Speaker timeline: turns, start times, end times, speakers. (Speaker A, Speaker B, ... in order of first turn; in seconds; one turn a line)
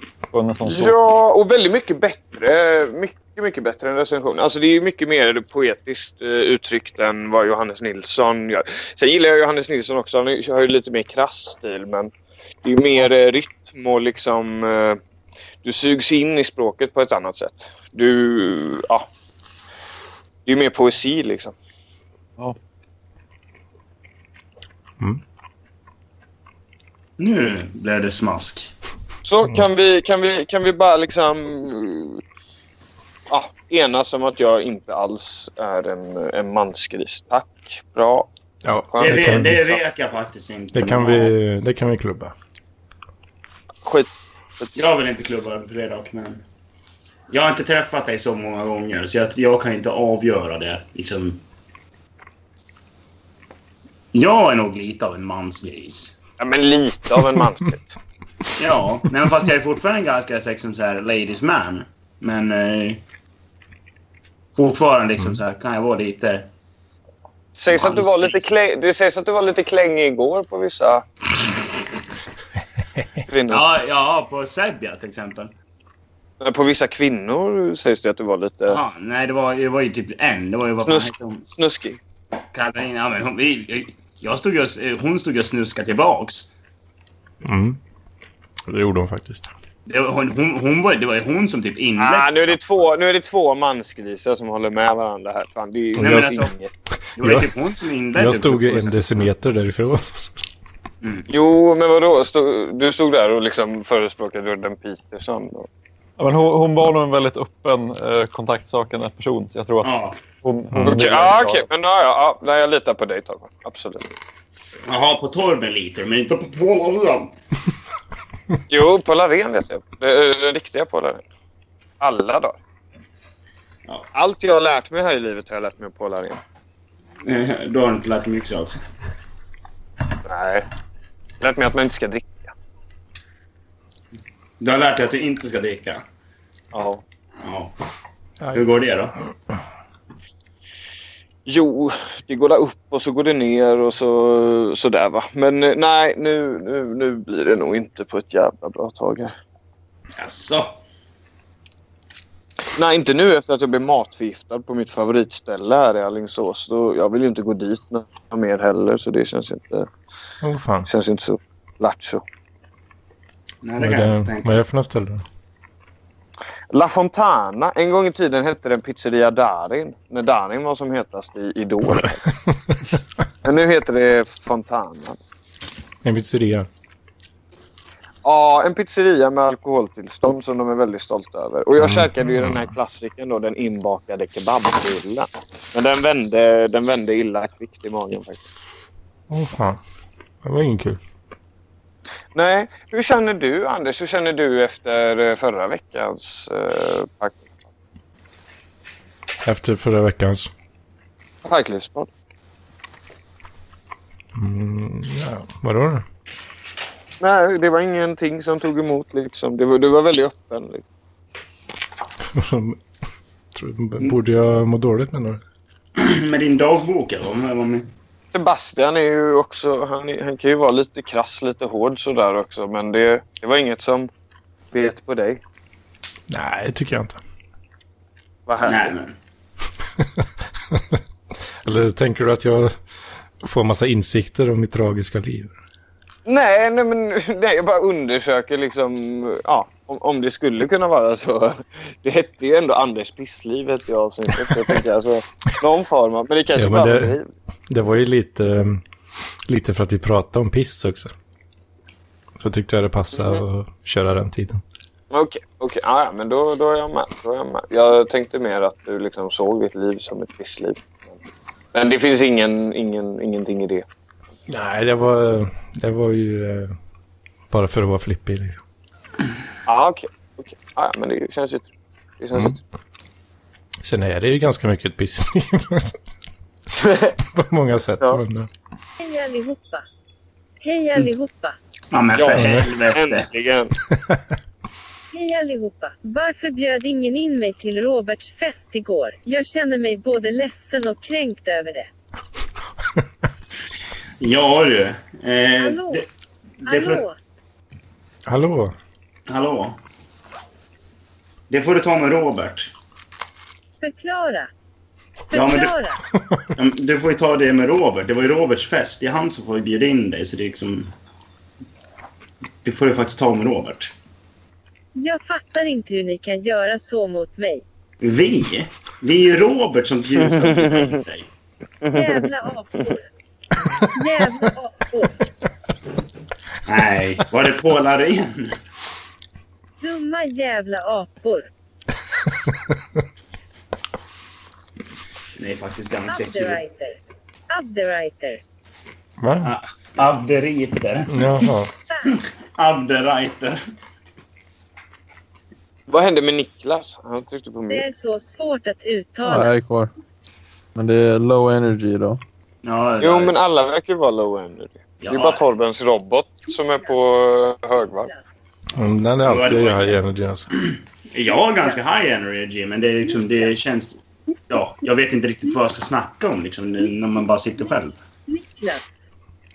Speaker A: 0.3-0.9
Speaker B: 0.7-12.1
Speaker B: 12.7-15.0
Speaker B: 15.6-19.1
Speaker B: 20.5-21.5
Speaker C: 27.2-28.7
Speaker B: 29.2-32.2
Speaker B: 33.3-38.3
Speaker D: 38.6-39.6
Speaker B: 38.9-39.8
Speaker C: 39.0-41.3
Speaker D: 40.7-42.3
Speaker B: 43.9-44.7
Speaker C: 44.8-46.4
Speaker C: 47.3-51.4
Speaker C: 54.1-56.2
Speaker B: 56.4-58.0
Speaker C: 58.6-63.0
Speaker C: 64.5-66.5
Speaker B: 67.5-71.0
Speaker C: 67.7-68.4
Speaker B: 73.3-73.6
Speaker C: 73.5-75.5
Speaker B: 76.4-78.8
Speaker C: 78.7-81.4
Speaker B: 80.8-82.0
Speaker C: 82.5-86.5
Speaker D: 87.4-87.8
Speaker D: 88.7-89.5
Speaker C: 89.9-92.6
Speaker B: 92.0-96.7
Speaker D: 96.0-96.3
Speaker C: 96.0-96.5
Speaker D: 97.2-97.5
Speaker C: 97.2-99.2
Speaker D: 98.1-100.1
Speaker C: 101.0-101.3
Speaker B: 101.3-105.7
Speaker A: 106.2-111.7
Speaker C: 109.8-110.2
Speaker D: 110.7-111.0
Speaker B: 110.8-114.1
Speaker C: 114.9-117.3
Speaker B: 118.7-121.3
Speaker B: 122.0-122.6
Speaker B: 124.1-126.4
Speaker C: 127.2-128.8
Speaker B: 130.2-130.7
Speaker B: 131.4-132.5
Speaker C: 134.6-136.0
Speaker B: 136.7-137.0
Speaker C: 137.4-137.7
Speaker C: 138.5-139.1
Speaker B: 141.5-149.3
Speaker C: 150.2-150.8
Speaker B: 152.8-159.9
Speaker D: 160.4-160.9
Speaker B: 160.9-162.2
Speaker C: 163.6-164.6
Speaker D: 163.8-165.2
Speaker B: 166.7-172.2
Speaker D: 172.5-172.7
Speaker B: 173.4-175.2
Speaker D: 176.0-176.7
Speaker B: 178.2-188.5
Speaker D: 181.8-182.7
Speaker D: 189.3-189.8
Speaker D: 190.4-191.0
Speaker B: 192.3-197.6
Speaker D: 199.4-200.5
Speaker B: 201.4-202.1
Speaker D: 204.3-206.1
Speaker B: 207.2-210.8
Speaker D: 212.3-212.8
Speaker D: 213.6-215.4
Speaker C: 216.0-217.9
Speaker B: 218.3-224.1
Speaker B: 224.7-225.4
Speaker D: 226.3-227.2
Speaker B: 228.5-229.0
Speaker C: 228.6-229.2
Speaker D: 230.7-231.0
Speaker D: 231.6-232.8
Speaker D: 233.4-235.5
Speaker B: 236.3-247.3
Speaker D: 246.5-247.2
Speaker D: 247.7-248.8
Speaker D: 249.5-251.1
Speaker D: 252.4-254.6
Speaker B: 253.1-253.4
Speaker B: 255.1-260.8
Speaker B: 261.7-263.9
Speaker D: 264.5-266.8
Speaker D: 267.5-268.6
Speaker B: 269.7-271.7
Speaker B: 272.2-272.6
Speaker D: 272.3-272.6
Speaker D: 273.8-276.0
Speaker B: 276.8-277.1
Speaker D: 277.3-278.5
Speaker E: 279.0-279.8
Speaker E: 280.6-281.6
Speaker C: 281.9-283.3
Speaker B: 282.2-283.7
Speaker D: 282.3-282.7
Speaker E: 285.1-291.9
Speaker C: 294.2-296.0
Speaker E: 295.6-296.0
Speaker C: 296.7-297.0
Speaker E: 296.7-297.2
Speaker D: 298.3-298.7
Speaker C: 299.3-299.8
Speaker C: 301.5-302.7
Speaker E: 303.8-304.5
Speaker E: 305.3-306.0
Speaker C: 305.3-305.8
Speaker C: 306.6-310.9
Speaker C: 312.6-313.9
Speaker E: 315.0-317.6
Speaker C: 318.0-321.3
Speaker B: 320.2-321.0
Speaker B: 321.8-322.8
Speaker E: 321.9-323.1
Speaker E: 323.9-325.2
Speaker C: 326.7-328.6
Speaker E: 329.8-331.5
Speaker C: 335.4-336.6
Speaker E: 336.1-337.0
Speaker E: 337.5-338.4
Speaker D: 339.2-339.5
Speaker C: 339.4-341.4
Speaker D: 341.1-341.7
Speaker C: 342.6-343.6
Speaker B: 345.9-347.9
Speaker E: 347.7-349.6
Speaker F: 349.3-349.9
Speaker F: 350.8-352.2
Speaker C: 352.6-353.3
Speaker B: 353.0-358.1
Speaker C: 355.0-355.4
Speaker D: 358.8-360.5
Speaker C: 359.2-359.9
Speaker C: 360.6-368.0
Speaker E: 368.3-368.9